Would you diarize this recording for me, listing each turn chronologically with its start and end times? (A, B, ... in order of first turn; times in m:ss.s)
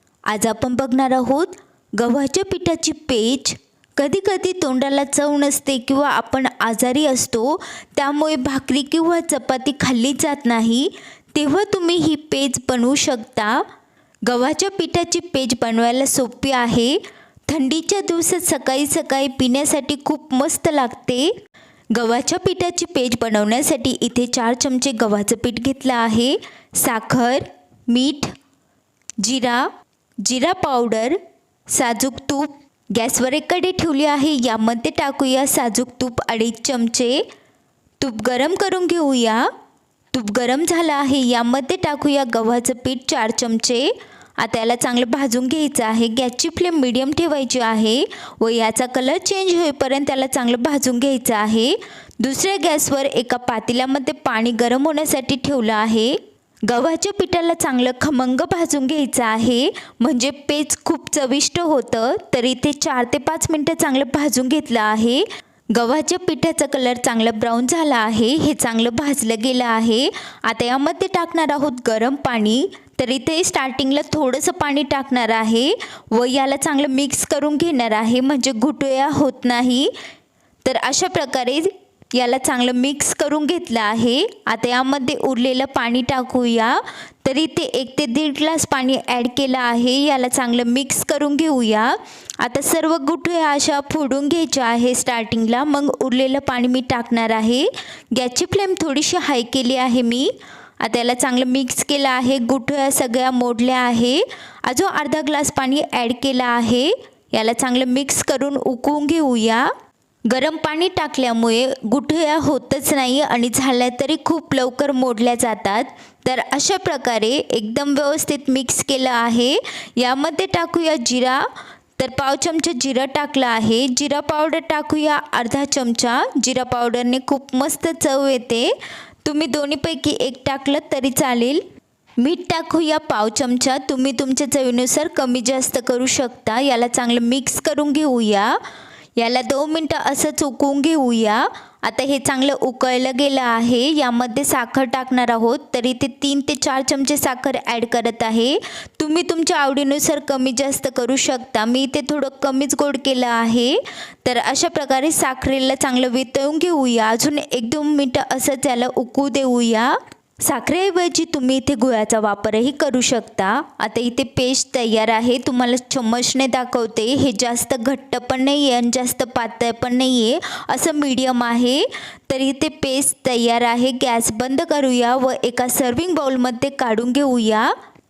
0:00.3-0:13.6 A
0:14.2-0:21.3 A
0:21.9-0:28.3 A
0:29.2-0:29.7 A
0:30.2-0:31.2 A
0:31.7-0:37.2 A
0:38.0-0:39.5 A
0:40.1-1:19.9 A
1:20.6-1:40.3 A
1:40.8-1:49.7 A
1:50.3-2:01.4 A
2:02.0-2:08.7 A
2:09.2-2:11.6 A
2:12.2-2:18.6 A
2:19.2-2:57.7 A